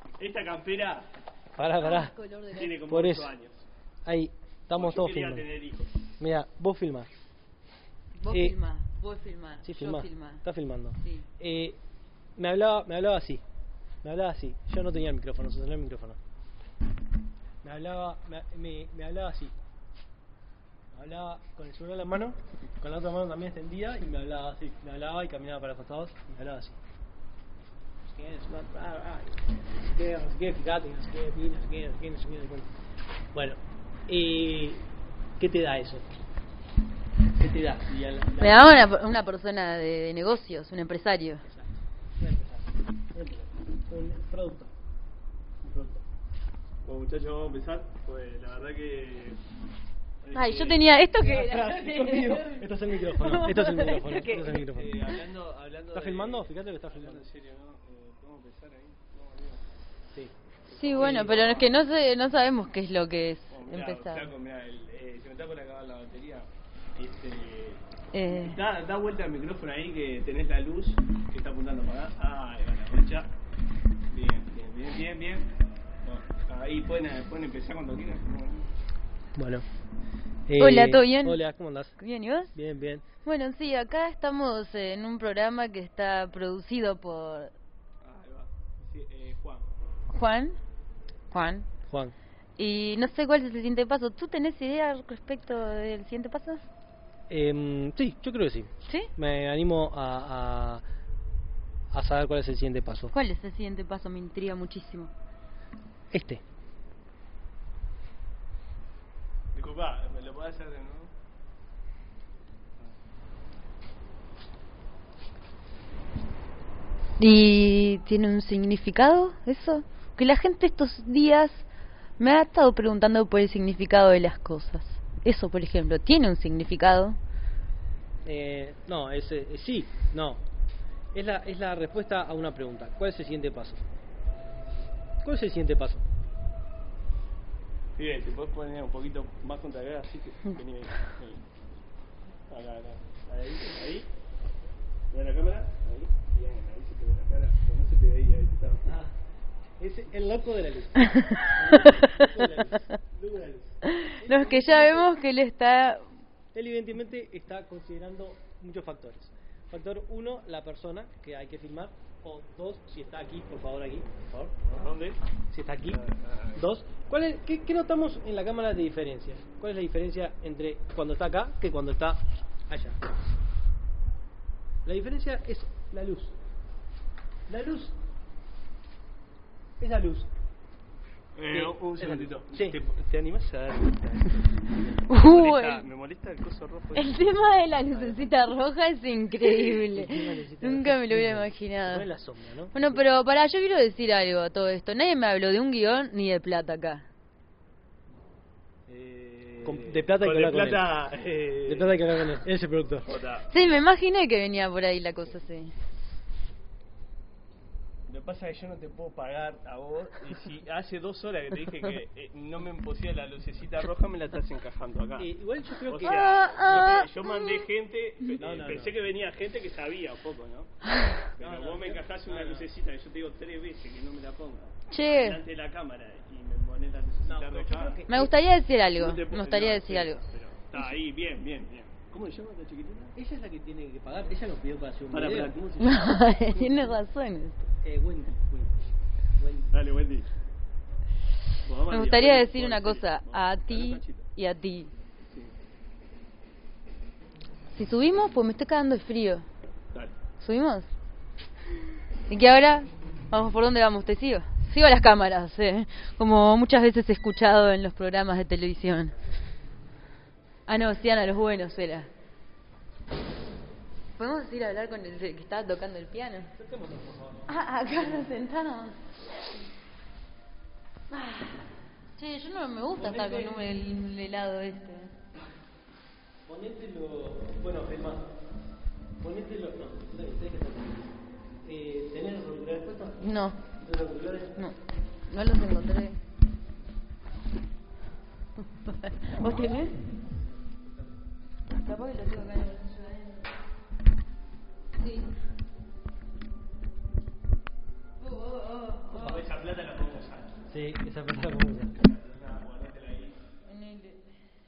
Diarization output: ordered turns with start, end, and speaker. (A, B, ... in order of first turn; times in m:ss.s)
0:00.2-0:01.1 A
0:01.6-0:02.2 B
0:01.8-0:02.7 C
0:02.5-0:03.7 A
0:02.8-0:03.3 B
0:04.1-0:05.5 B
0:04.7-0:05.9 A
0:06.2-0:07.1 B
0:08.2-0:10.4 C
0:08.3-0:08.6 B
0:09.6-0:11.8 B
0:11.0-0:11.3 C
0:12.4-0:13.4 B
0:14.0-0:16.2 B
0:17.6-0:19.5 B
0:20.9-0:26.8 B
0:28.1-0:32.7 B
0:33.3-0:34.8 B
0:35.4-0:36.1 B
0:37.4-0:38.8 B
0:38.4-0:41.4 C
0:41.5-0:44.7 B
0:45.6-0:46.0 B
0:46.8-0:49.4 A
0:50.2-0:51.0 A
0:50.3-0:54.6 C
0:51.2-0:55.0 B
0:54.2-0:59.6 A
0:55.9-0:57.2 B
1:00.7-1:01.9 A
1:00.7-1:04.3 C
1:01.0-1:01.4 B
1:03.5-1:13.3 A
1:08.1-1:08.6 C
1:14.1-1:15.5 A
1:16.0-1:18.7 A
1:19.4-1:19.6 B
1:20.5-1:22.0 B
1:20.6-1:21.4 C
1:22.0-1:22.5 C
1:22.6-1:23.1 B
1:23.2-1:27.5 C
1:28.0-1:29.7 A
1:30.1-1:30.6 C
1:31.3-1:31.7 C
1:31.9-1:32.1 B
1:32.6-1:36.6 C
1:37.3-1:40.8 B
1:41.9-1:43.1 B
1:43.1-1:45.1 C
1:46.1-1:46.4 B
1:49.5-1:51.1 A
1:57.2-2:01.6 C
2:02.2-2:07.2 C
2:08.2-2:10.4 B
2:11.1-2:13.8 B
2:15.2-2:16.0 B
2:18.0-2:21.5 A
2:22.5-2:24.1 A
2:25.1-2:29.0 A
2:28.8-2:29.1 B
2:29.8-2:35.1 B
2:31.1-2:32.4 C
2:33.9-2:36.1 C
2:36.5-2:44.6 B
2:44.7-2:45.2 A
2:45.5-2:46.0 B
2:45.9-2:46.6 A
2:46.6-2:53.0 B
2:54.8-2:56.4 B
2:57.5-2:57.9 B
2:59.8-3:00.3 B
3:01.4-3:07.5 A
3:01.5-3:02.8 B
3:05.1-3:05.9 C
3:07.0-3:12.1 C
3:09.7-3:13.0 B
3:12.7-3:17.0 C
3:18.9-3:22.0 A
3:19.6-3:20.9 B
3:21.7-3:23.1 B
3:23.1-3:23.7 A
3:23.5-3:25.7 C
3:28.1-3:35.3 A
3:35.2-3:37.0 B
3:35.9-3:40.7 A
3:36.0-3:37.6 C
3:38.4-3:39.0 B
3:41.3-3:48.0 A
3:41.4-3:42.7 B
3:44.9-3:45.4 C
3:47.2-3:48.4 B
3:48.1-3:50.2 C
3:48.9-3:53.2 A
3:53.2-3:55.6 B
3:55.1-3:56.9 A
3:55.8-3:57.7 C
3:57.8-3:58.8 B
3:59.4-3:59.7 B
3:59.7-4:00.3 A
4:01.6-4:04.3 A
4:01.9-4:04.9 C
4:05.3-4:05.6 A
4:07.7-4:09.4 C
4:10.4-4:10.9 C
4:12.3-4:19.2 C
4:20.7-4:22.1 C
4:24.2-4:26.5 C
4:26.6-4:27.5 B
4:27.5-4:29.0 C
4:31.1-4:35.1 C
4:33.0-4:33.6 B
4:36.5-4:38.3 B
4:39.2-4:43.2 B
4:43.2-4:43.6 C
4:43.8-4:44.6 B
4:45.3-4:46.2 C
4:48.8-4:50.0 C
4:51.7-4:53.5 C
4:55.0-4:55.3 C
4:58.2-4:59.5 C
4:59.1-5:00.6 A
5:00.7-5:02.0 B
5:02.0-5:03.4 A
5:03.6-5:04.4 C